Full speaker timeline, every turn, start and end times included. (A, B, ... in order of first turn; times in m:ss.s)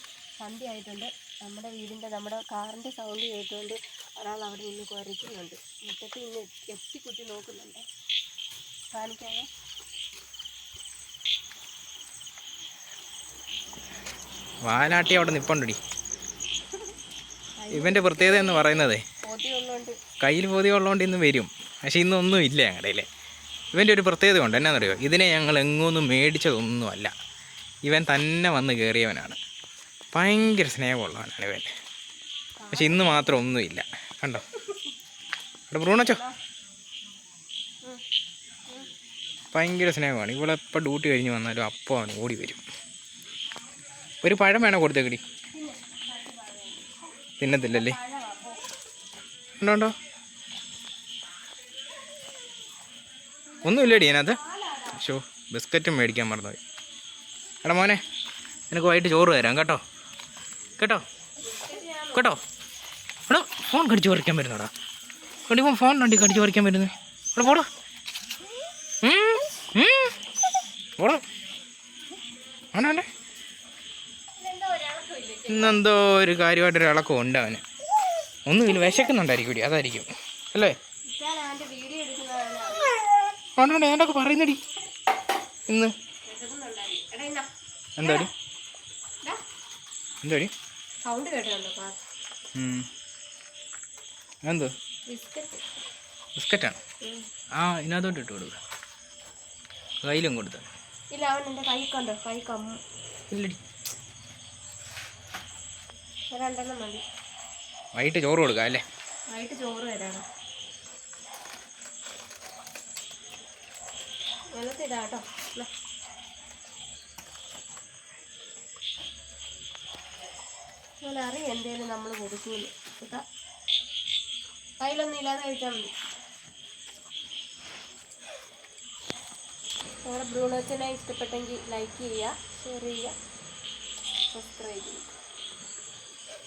0:00.4-0:07.8 A
0:08.9-0:09.5 A
0:14.6-0:15.8 B
0:17.6-0:20.0 A
0:17.7-0:19.0 B
0:20.2-0:23.1 B
0:23.7-0:27.1 B
0:27.8-0:29.4 B
0:30.1-0:31.7 B
0:32.6-0:33.4 A
0:32.7-0:34.4 B
0:35.7-0:36.2 B
0:36.0-0:36.4 A
0:39.5-0:42.6 B
0:44.2-0:45.2 B
0:45.5-0:47.0 A
0:47.4-0:48.0 B
0:47.5-0:48.6 A
0:49.6-0:49.9 B
0:53.6-0:55.0 A
0:53.6-0:54.4 B
0:54.9-0:56.6 B
0:57.6-0:58.0 B
0:58.7-0:59.8 B
1:00.8-1:01.0 B
1:01.4-1:02.4 A
1:02.1-1:02.4 B
1:03.3-1:04.7 B
1:05.5-1:07.7 B
1:09.0-1:10.2 B
1:11.0-1:11.2 B
1:12.7-1:13.1 B
1:14.4-1:15.8 A
1:15.5-1:17.6 B
1:18.4-1:20.8 B
1:21.1-1:22.9 A
1:23.6-1:24.6 B
1:25.7-1:25.9 B
1:26.2-1:27.5 A
1:28.0-1:28.3 B
1:28.0-1:28.3 A
1:30.2-1:30.5 B
1:31.0-1:32.0 A
1:32.5-1:32.9 B
1:34.4-1:34.7 B
1:35.1-1:35.6 A
1:36.4-1:36.8 B
1:37.5-1:38.6 B
1:40.0-1:40.7 B
1:41.1-1:42.8 A
1:43.3-1:43.6 B
1:46.3-1:47.0 A
1:47.9-1:48.8 B
1:49.3-1:50.2 A
1:54.5-1:55.7 A
2:01.0-2:03.2 A
2:04.8-2:05.9 A
2:10.0-2:13.1 A
2:14.3-2:15.0 A